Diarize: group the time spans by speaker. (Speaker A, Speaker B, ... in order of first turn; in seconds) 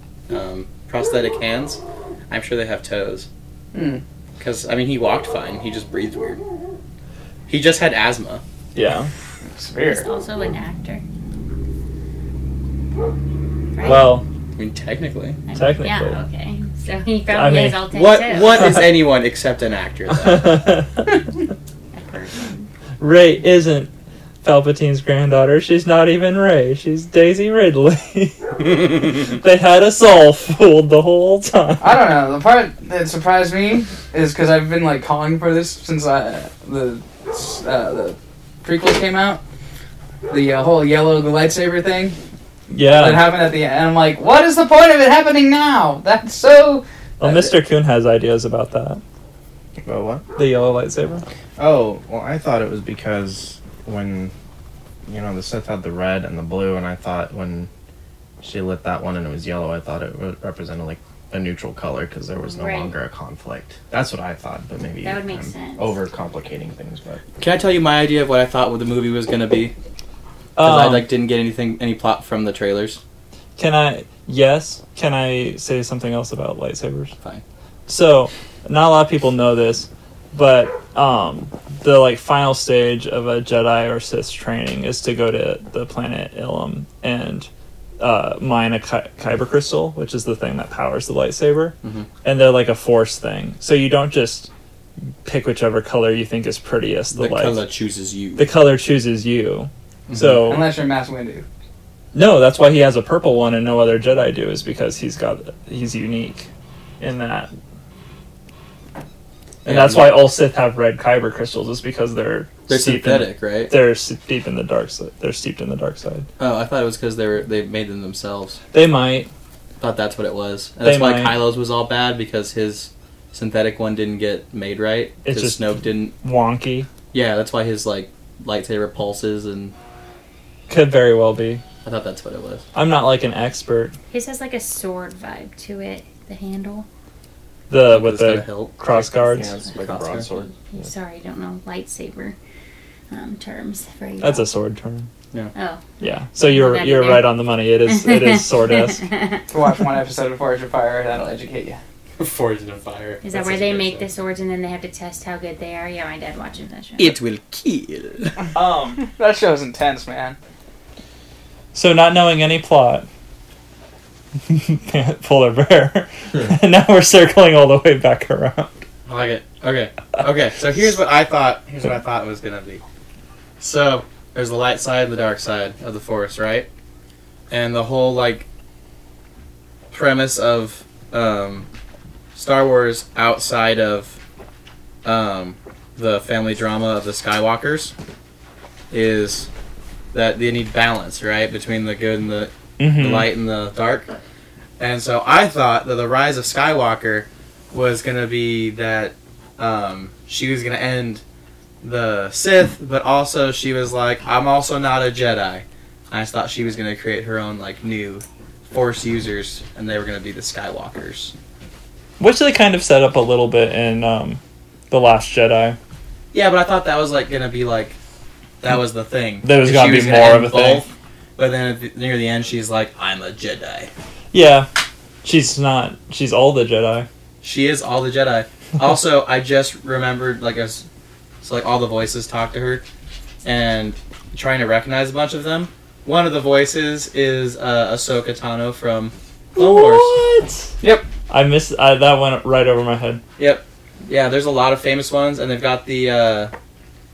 Speaker A: 0.3-3.3, 4.4-6.4, 7.5-8.4, 14.6-15.4, 17.9-20.6, 67.4-69.7, 70.6-73.0, 91.8-92.1, 97.1-98.5, 100.1-100.5, 109.6-110.2, 112.7-113.7, 116.4-118.6, 119.8-126.1, 127.1-129.7, 131.8-132.6, 137.9-140.3, 152.2-154.1, 157.0-158.4, 169.1-172.8, 173.6-176.7, 177.5-178.4, 179.9-181.7, 182.3-184.2, 185.0-187.9, 188.9-189.5, 190.1-194.1, 194.8-201.2, 201.8-211.3, 216.3-217.9, 218.6-223.9, 227.4-230.8, 231.4-232.8, 233.4-240.1, 243.4-246.5
Speaker B: 3.7-4.0, 9.4-10.1, 31.8-39.4, 40.3-42.1, 42.9-47.5, 100.4-101.4, 149.5-151.8, 159.0-160.3, 240.8-241.1
Speaker C: 8.7-9.1, 13.8-14.2, 15.5-16.2, 17.3-17.9, 20.1-21.2, 23.0-23.9, 24.4-32.1, 42.7-43.3, 47.2-49.0, 50.4-51.2, 70.5-71.1, 73.6-77.1, 77.9-94.5, 95.2-97.6, 98.4-100.7, 102.1-106.5, 107.0-107.5, 109.6-116.3, 118.7-119.3, 120.8-121.4, 125.2-126.9, 130.7-131.6, 132.7-133.9, 137.7-139.6, 144.2-145.1, 146.0-149.1, 158.5-159.0, 161.7-163.1, 164.5-168.8, 192.8-193.3, 212.2-215.8, 219.4-220.9, 224.3-224.7, 225.2-227.1, 239.6-240.7, 241.3-243.2
Speaker D: 9.8-11.0, 13.7-14.2, 15.5-18.7, 21.9-22.7, 62.5-62.9, 65.0-65.9, 134.1-136.8, 140.4-142.4, 143.1-144.5, 145.5-149.4, 153.2-157.2
Speaker E: 49.8-50.2, 51.6-54.3, 55.1-57.7, 58.4-67.2, 139.2-140.9